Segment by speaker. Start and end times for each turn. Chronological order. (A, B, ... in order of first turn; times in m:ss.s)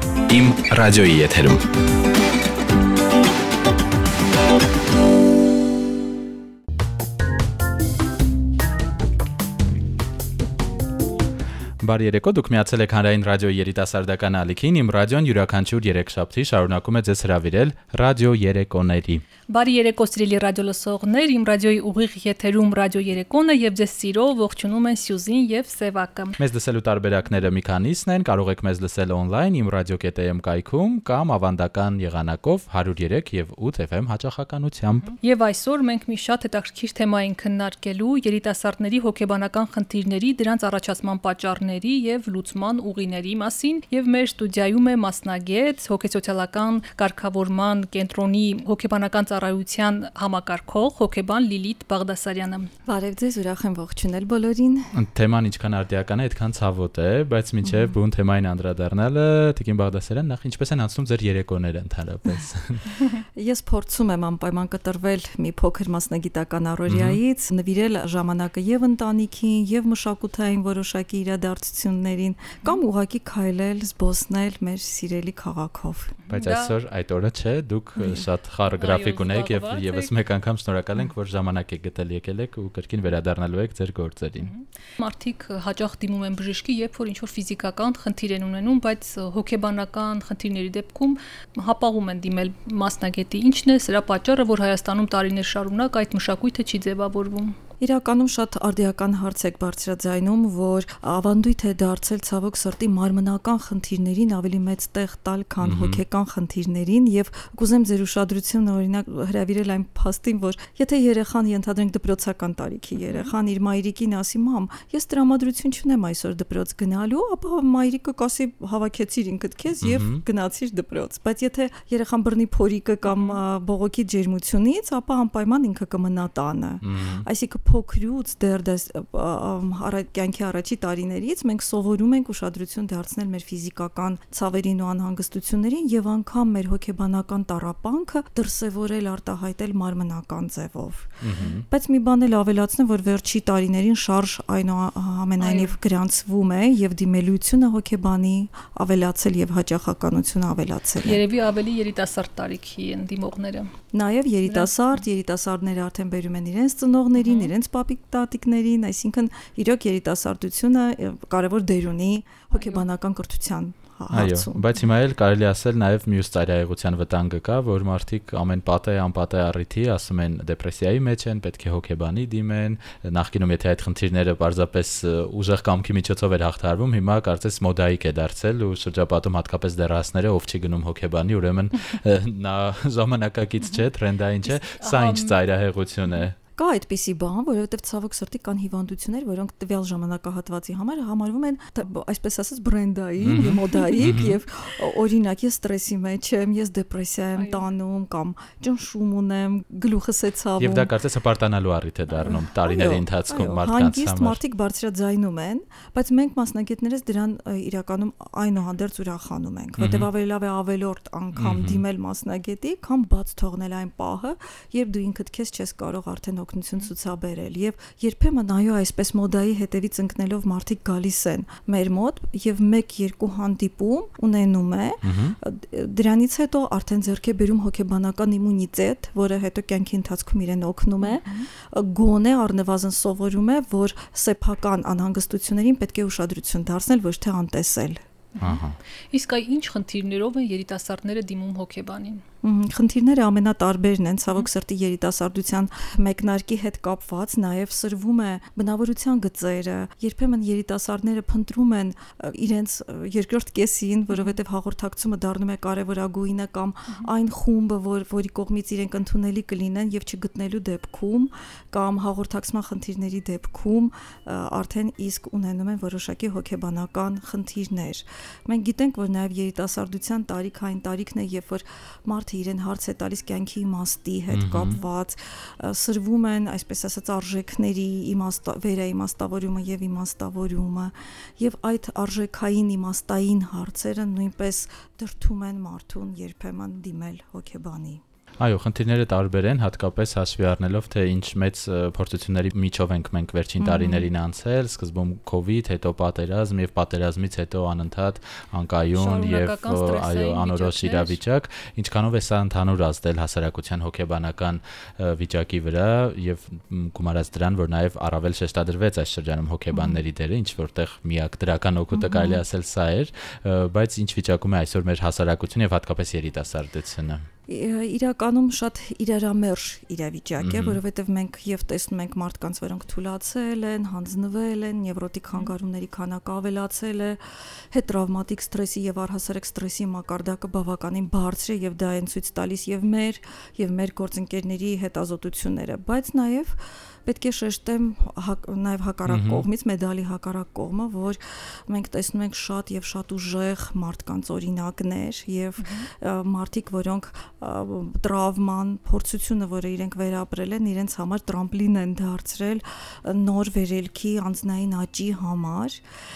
0:00.3-0:01.6 A
0:11.8-0:19.2 A
0:19.5-0:26.4 B
0:26.4-0:35.1 A
0:35.0-0:52.7 B
0:52.8-0:54.9 C
0:54.9-1:03.0 A
0:57.6-0:57.9 C
1:03.4-1:16.2 C
1:06.9-1:07.2 A
1:16.2-1:16.7 B
1:16.3-1:24.5 A
1:18.0-1:18.2 C
1:18.7-1:20.1 B
1:24.4-1:37.6 B
1:37.8-2:31.2 C
1:45.6-1:46.0 A
1:53.0-1:53.3 B
1:59.8-2:00.2 A
2:03.0-2:03.4 B
2:06.8-2:07.2 A
2:21.2-2:21.6 A
2:25.4-2:25.8 B
2:31.0-2:33.7 B
2:33.9-2:44.7 C
2:34.5-2:34.7 B
2:37.2-2:37.5 B
2:42.5-2:42.8 B
2:44.1-3:06.4 A
3:04.4-3:05.4 B
3:06.6-3:20.9 C
3:13.2-3:14.4 A
3:17.4-3:17.6 B
3:20.6-3:24.4 A
3:22.2-3:58.0 C
3:29.8-3:30.1 A
3:31.4-3:31.8 A
3:45.0-3:45.4 A
3:51.0-3:51.5 B
3:58.3-4:02.2 B
3:58.4-3:58.8 A
4:02.4-4:48.0 C
4:34.3-4:34.8 A
4:48.4-5:17.3 A
4:53.6-4:54.0 C
4:58.9-5:01.2 B
5:09.7-5:10.0 C
5:11.9-5:12.4 C
5:17.5-5:55.8 C
5:20.4-5:20.8 A
5:39.1-5:39.4 A
5:45.6-5:45.9 B